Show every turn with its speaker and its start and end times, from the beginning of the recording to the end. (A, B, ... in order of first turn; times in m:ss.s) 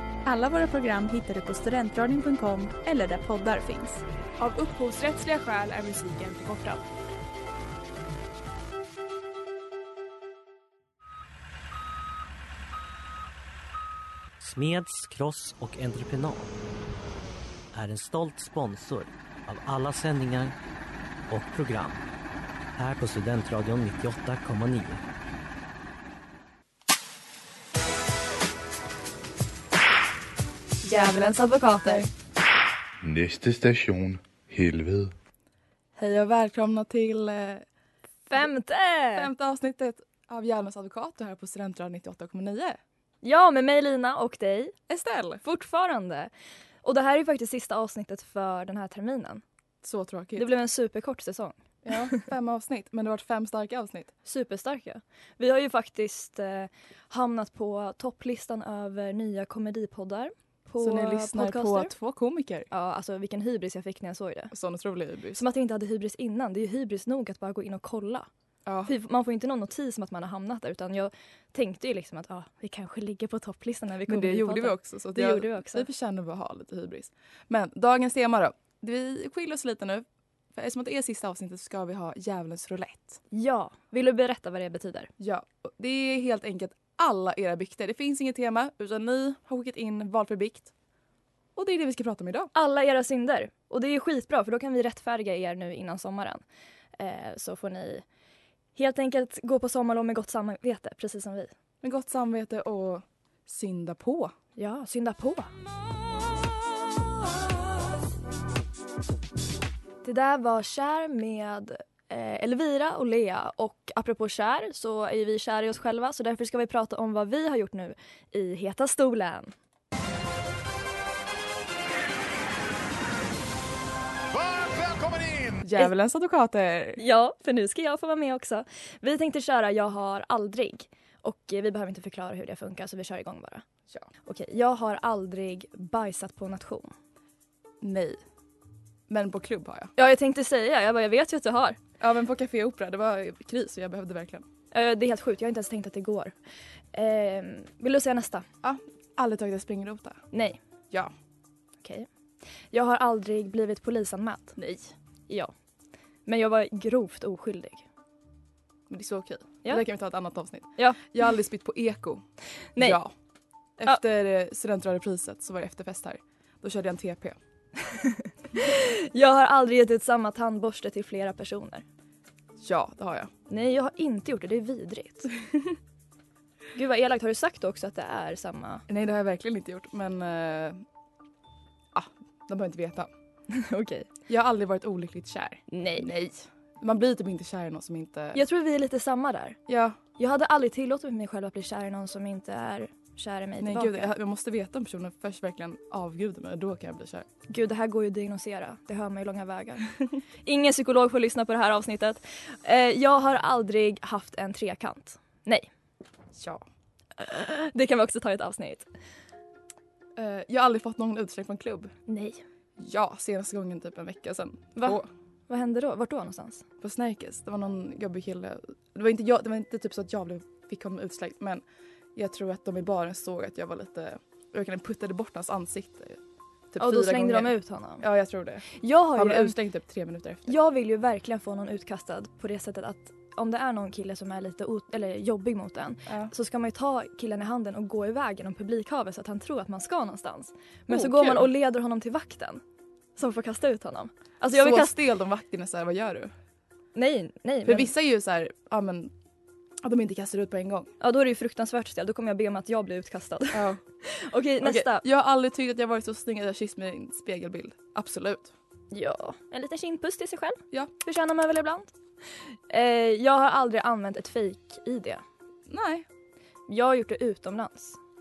0:00.2-0:04.0 A
0:04.4-0:06.8 B
0:14.4-0:16.5 C
0:17.7-0:20.5 C
0:21.3-0:22.0 C
0:22.7-0:25.0 C
0:30.8-0:32.1 D
0:33.0-0:35.1 E
0:36.0-0:37.6 F
0:38.3-0:39.3 D
0:39.1-0:42.8 F
0:43.2-0:44.7 D
0:44.9-0:45.4 F
0:45.4-0:46.3 D
0:46.8-0:49.4 D
0:49.8-0:50.5 F
0:50.4-0:51.6 D
0:51.8-0:54.1 F
0:54.2-1:01.9 D
1:00.8-1:02.7 F
1:02.7-1:04.5 D
1:04.5-1:05.4 F
1:05.3-1:08.3 D
1:08.6-1:08.9 F
1:08.8-1:15.8 D
1:14.1-1:20.0 F
1:20.5-1:23.2 F
1:23.3-1:25.1 D
1:25.2-1:30.7 F
1:31.5-1:32.5 F
1:32.5-1:36.4 D
1:37.0-1:38.0 D
1:38.8-1:41.5 D
1:41.8-1:44.3 F
1:44.6-1:45.5 D
1:50.0-1:59.5 D
2:05.6-2:07.0 F
2:07.0-2:13.6 D
2:14.2-2:16.9 D
2:17.8-2:18.2 F
2:19.1-2:19.9 F
2:20.0-2:21.8 D
2:22.0-2:24.4 F
2:24.7-2:26.3 D
2:26.9-2:28.4 D
2:28.6-2:30.2 F
2:30.3-2:30.6 D
2:32.7-2:34.6 D
2:34.6-2:34.9 F
2:36.2-2:37.8 D
2:38.9-2:42.2 F
2:40.8-2:41.0 D
2:42.8-2:43.1 F
2:43.8-2:47.4 F
2:47.9-2:51.8 D
2:52.6-2:53.3 F
2:53.5-2:55.3 D
2:56.7-2:58.8 D
2:58.9-3:00.8 F
3:01.9-3:03.1 F
3:03.5-3:04.1 D
3:04.3-3:08.4 F
3:05.7-3:06.1 D
3:08.3-3:09.6 D
3:09.7-3:10.0 F
3:10.2-3:14.1 D
3:13.6-3:17.3 F
3:17.5-3:19.9 D
3:20.4-3:25.7 D
3:26.3-3:26.6 F
3:27.2-3:28.9 D
3:30.2-3:31.9 F
3:32.1-3:32.4 D
3:32.8-3:35.1 F
3:34.8-3:36.6 D
3:36.8-3:41.6 F
3:42.1-3:46.2 F
3:46.7-3:50.6 F
3:46.8-3:48.0 D
3:48.8-3:49.6 D
3:50.4-4:02.6 D
3:56.1-3:56.3 F
4:00.9-4:01.5 F
4:03.2-4:04.9 D
4:04.5-4:06.3 F
4:06.9-4:07.9 D
4:07.6-4:09.1 F
4:09.8-4:10.9 F
4:11.0-4:15.0 D
4:13.5-4:13.8 F
4:14.6-4:18.5 F
4:18.9-4:21.9 D
4:22.7-4:25.2 D
4:25.7-4:26.1 F
4:26.7-4:28.0 D